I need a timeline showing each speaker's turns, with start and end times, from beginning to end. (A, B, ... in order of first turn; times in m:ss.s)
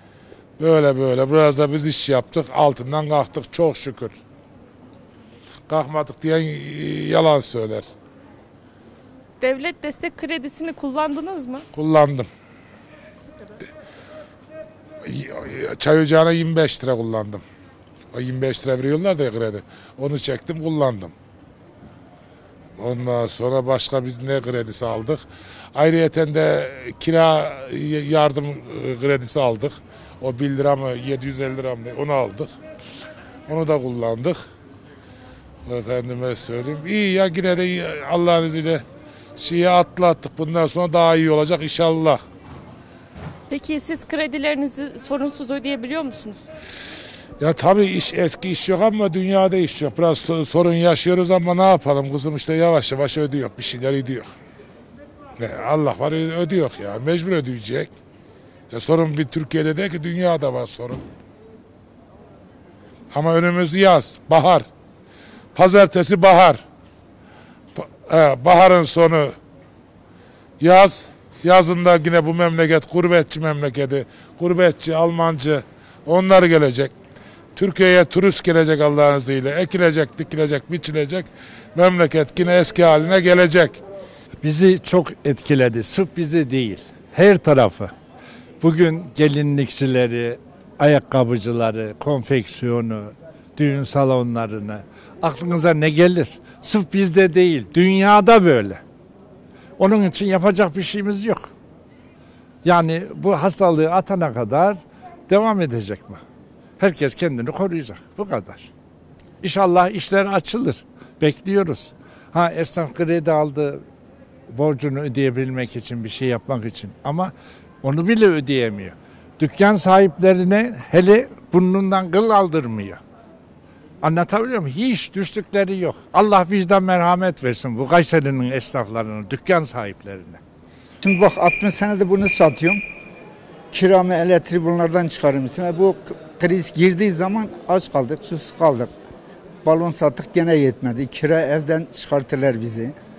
0:00.6-0:04.2 A
0:05.7-0:07.8 A
0:09.4-0:11.7 B
0:11.7-0:12.3 A
0:15.1-0:17.4 A
0:18.1-0:21.1 A
0:22.8-0:25.2 A
0:25.8-0:32.5 A
0:33.5-0:34.4 A
0:35.7-0:38.8 A
0:39.4-0:42.2 A
0:43.5-0:46.4 B
0:47.4-0:54.3 A
0:55.4-0:57.9 A
0:58.7-1:01.0 A
1:03.1-1:04.6 A
1:05.6-1:06.6 A
1:07.8-1:09.3 A
1:10.6-1:16.9 A
1:17.6-1:23.8 A
1:24.4-1:27.9 C
1:28.6-1:38.8 C
1:39.8-1:41.5 C
1:42.6-1:46.2 C
1:46.8-1:48.7 C
1:49.4-1:53.8 C
1:54.5-2:03.0 C
2:04.0-2:10.4 C
2:11.0-2:12.8 D
2:13.7-2:18.9 D
2:19.6-2:22.9 D